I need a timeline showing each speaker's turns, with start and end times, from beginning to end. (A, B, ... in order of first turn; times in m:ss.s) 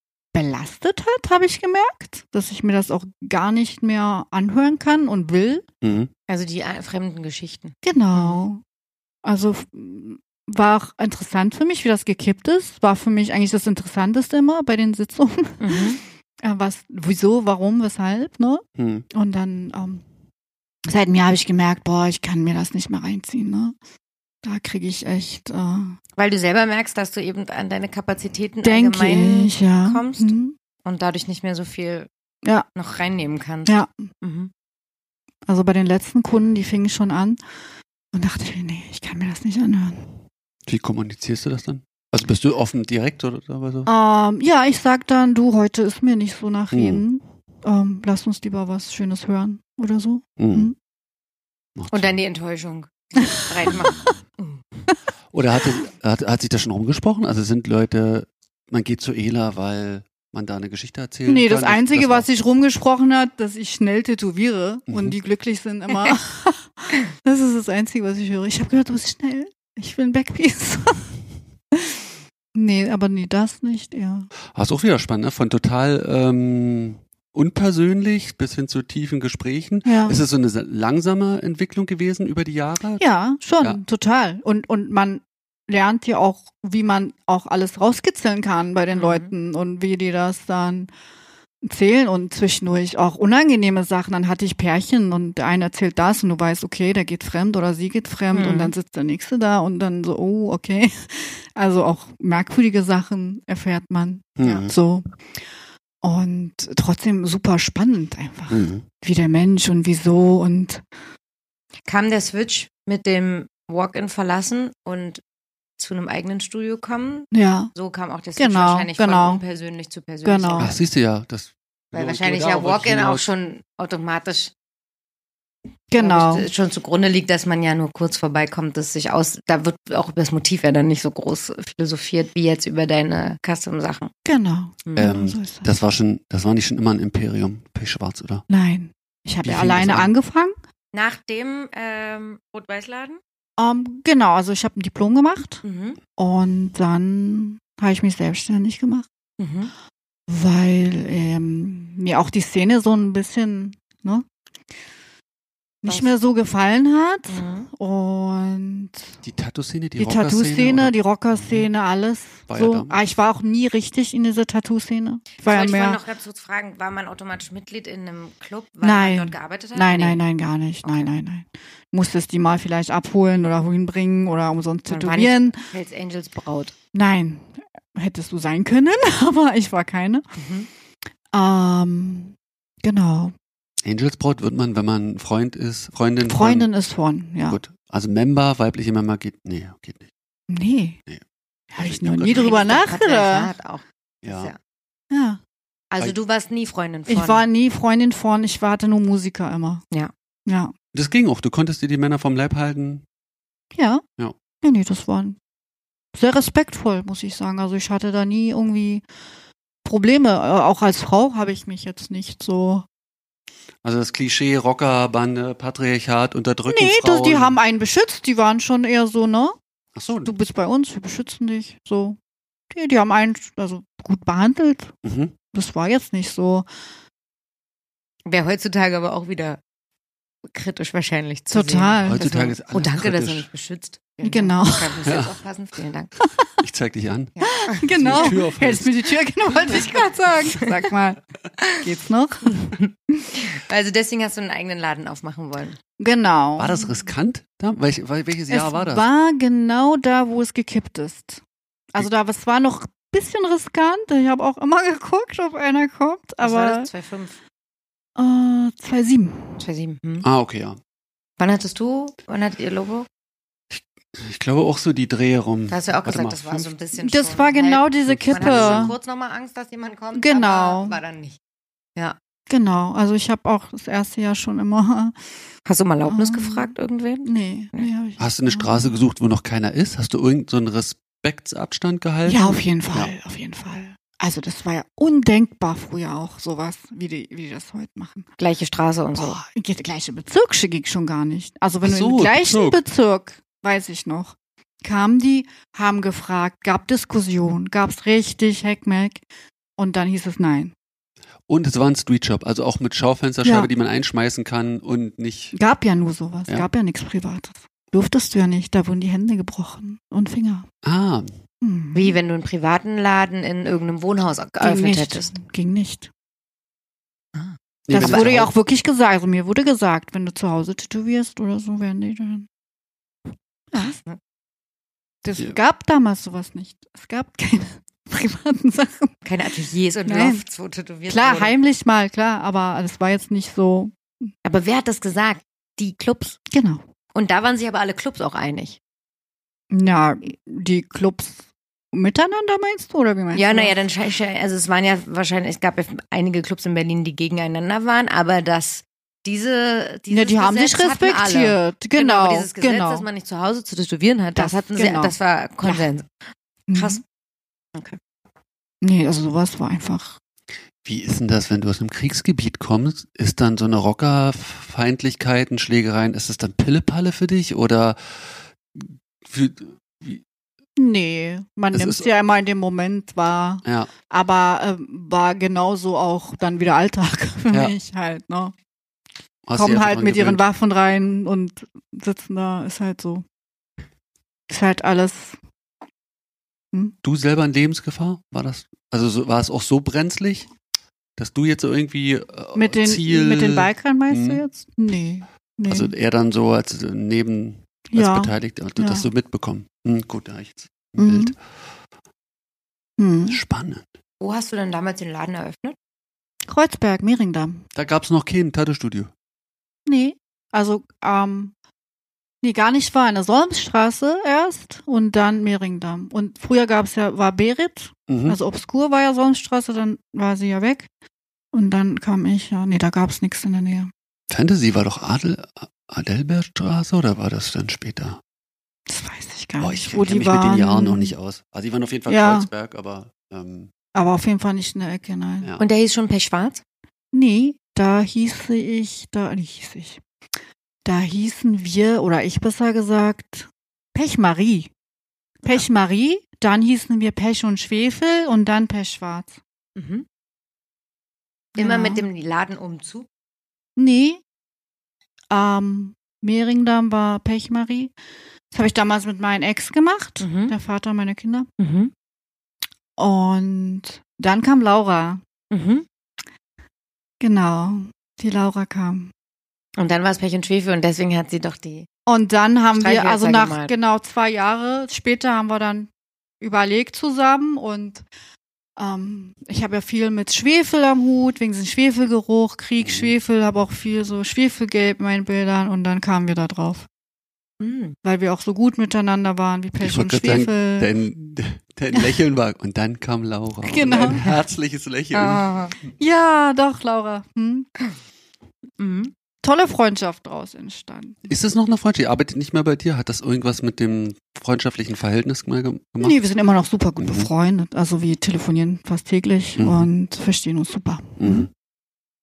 0:00.3-0:05.6 A
0:05.8-0:06.1 B
0:06.3-0:08.4 C
0:07.8-0:08.6 A
0:09.2-0:15.9 A
0:15.6-0:16.0 C
0:16.4-0:20.0 A
0:18.8-0:19.1 B
0:20.9-0:23.7 A
0:24.4-0:26.0 A
0:26.2-0:32.1 C
0:28.6-0:30.6 A
0:32.7-0:34.5 C
0:33.7-0:34.0 A
0:35.5-0:37.4 A
0:38.1-0:40.1 A
0:40.6-0:43.9 B
0:43.9-0:50.7 A
0:46.7-0:47.0 B
0:50.4-0:50.7 B
0:51.8-0:52.1 B
0:51.9-0:54.6 C
0:53.2-0:53.7 A
0:55.3-1:02.2 B
1:01.2-1:11.2 A
1:04.9-1:05.2 B
1:11.7-1:12.0 A
1:12.6-1:14.3 A
1:14.5-1:23.0 B
1:19.8-1:20.2 A
1:23.0-1:30.9 A
1:28.9-1:29.3 C
1:31.6-1:45.0 A
1:38.3-1:38.7 C
1:44.4-1:44.7 B
1:44.4-1:44.7 C
1:46.0-1:50.8 A
1:48.5-1:48.8 B
1:51.9-1:55.2 C
1:55.8-2:00.7 C
1:57.3-1:57.7 A
1:58.4-1:59.4 A
2:00.2-2:00.7 A
2:00.6-2:03.3 B
2:01.9-2:04.5 C
2:05.9-2:06.5 A
2:06.0-2:14.1 C
2:14.2-2:15.7 A
2:14.8-2:15.1 C
2:15.0-2:18.4 B
2:18.5-2:20.5 A
2:19.4-2:20.1 B
2:20.9-2:23.2 C
2:23.6-2:25.6 A
2:25.6-2:26.0 C
2:26.2-2:29.0 A
2:29.4-2:29.7 C
2:30.3-2:34.2 A
2:35.8-2:39.1 A
2:35.8-2:36.1 C
2:37.3-2:37.7 C
2:39.2-2:41.7 B
2:40.0-2:46.0 A
2:42.5-2:43.0 B
2:45.4-2:50.2 C
2:48.8-2:55.6 A
2:50.8-2:51.1 C
2:54.9-2:56.7 C
2:56.9-3:00.2 A
3:00.4-3:00.7 C
3:01.3-3:03.3 A
3:03.8-3:06.7 B
3:06.3-3:07.6 A
3:07.5-3:10.1 B
3:10.5-3:11.0 A
3:11.7-3:13.5 A
3:11.7-3:12.8 B
3:12.3-3:14.6 C
3:14.2-3:14.5 B
3:15.1-3:15.4 A
3:15.9-3:17.4 C
3:17.1-3:19.8 A
3:20.5-3:20.7 A
3:20.9-3:23.0 B
3:23.7-3:24.0 A
3:24.6-3:25.4 A
3:26.1-3:29.0 A
3:29.8-3:32.9 A
3:33.8-3:37.6 B
3:36.7-3:39.6 A
3:39.9-3:40.3 B
3:40.2-3:42.2 A
3:42.7-3:44.9 A
3:45.0-3:45.3 B
3:45.5-3:46.6 A
3:48.2-3:49.6 C
3:50.4-3:56.1 C
3:51.5-3:52.3 A
3:52.0-3:53.5 B
3:54.2-3:55.0 A
3:55.0-3:55.3 B
3:56.6-3:59.1 B
3:57.4-3:58.4 C
3:57.4-4:01.2 A
3:59.6-4:00.0 C
4:01.8-4:03.2 A
4:02.8-4:05.8 C
4:06.0-4:06.9 A
4:06.6-4:09.0 B
4:08.5-4:11.4 A
4:11.9-4:16.9 A
4:16.4-4:17.4 C
4:18.2-4:19.6 A
4:19.6-4:20.3 C
4:20.2-4:20.8 B
4:21.4-4:23.1 C
4:23.7-4:26.7 B
4:25.7-4:31.4 C
4:27.0-4:28.9 A
4:28.0-4:28.9 B
4:30.1-4:31.0 A
4:32.5-4:35.1 A
4:35.6-4:37.9 C
4:36.0-4:38.9 A
4:38.2-4:43.1 B
4:42.2-4:48.3 A
4:48.4-4:49.4 C
4:49.1-4:59.2 A
4:51.8-4:52.8 B
4:59.8-5:00.7 A
5:01.5-5:05.6 B
5:03.4-5:03.7 A
5:05.5-5:10.7 A
5:10.8-5:11.3 B
5:11.6-5:12.2 A
5:11.9-5:15.3 C
5:14.6-5:16.1 A
5:17.3-5:18.3 C
5:17.9-5:18.5 B
5:17.9-5:22.5 A
5:23.7-5:24.0 A
5:23.7-5:24.2 C
5:25.2-5:29.2 A
5:29.2-5:31.6 C
5:30.0-5:30.4 A
5:31.1-5:33.9 A
5:34.4-5:36.4 C
5:36.5-5:36.8 A
5:37.1-5:38.8 C
5:39.7-5:43.8 A
5:43.3-5:56.1 C
5:50.1-5:53.0 A
5:54.4-5:55.9 A
5:56.7-5:57.0 A
5:56.7-5:57.0 C
5:58.8-6:00.2 A
6:00.8-6:10.2 B
6:10.8-6:18.5 A
6:11.7-6:12.1 B
6:13.6-6:13.9 B
6:19.4-6:20.4 B
6:19.6-6:23.2 A
6:24.5-6:25.4 A
6:27.0-6:30.5 B
6:31.2-6:34.4 B
6:32.6-6:35.9 A
6:35.7-6:41.3 B
6:37.9-6:39.0 A
6:41.0-6:41.3 A
6:43.0-6:43.4 A
6:43.3-6:43.9 B
6:44.2-6:45.8 C
6:46.5-6:47.6 A
6:47.7-6:49.1 B
6:49.9-6:51.5 A
6:52.4-7:00.9 A
6:58.1-6:58.4 B
7:01.5-7:03.9 A
7:04.3-7:08.2 B
7:08.9-7:11.1 A
7:09.6-7:13.7 B
7:12.1-7:12.5 A
7:13.9-7:15.5 A
7:15.6-7:16.6 C
7:17.1-7:20.0 A
7:20.9-7:24.7 A
7:25.4-7:29.4 A
7:29.8-7:30.0 C
7:31.6-7:32.0 A
7:31.6-7:33.1 C
7:33.8-7:34.2 A
7:35.3-7:37.9 A
7:38.5-7:41.5 A
7:40.2-7:40.5 C
7:41.6-7:41.9 C
7:43.0-7:45.2 A
7:45.5-7:45.8 C
7:47.2-7:49.1 A
7:49.8-7:51.9 C
7:52.1-7:55.9 A
7:52.7-7:53.7 C
7:56.4-7:58.0 A
7:58.8-8:06.9 A
8:02.8-8:03.1 B
8:07.6-8:08.0 C
8:08.0-8:10.9 A
8:09.8-8:15.5 B
8:13.6-8:14.3 A
8:15.1-8:15.7 C
8:16.0-8:17.7 A
8:18.8-8:19.1 C
8:19.4-8:21.3 A
8:21.3-8:26.2 B
8:26.0-8:31.5 A
8:27.0-8:27.3 B
8:29.6-8:29.9 B
8:31.2-8:31.5 B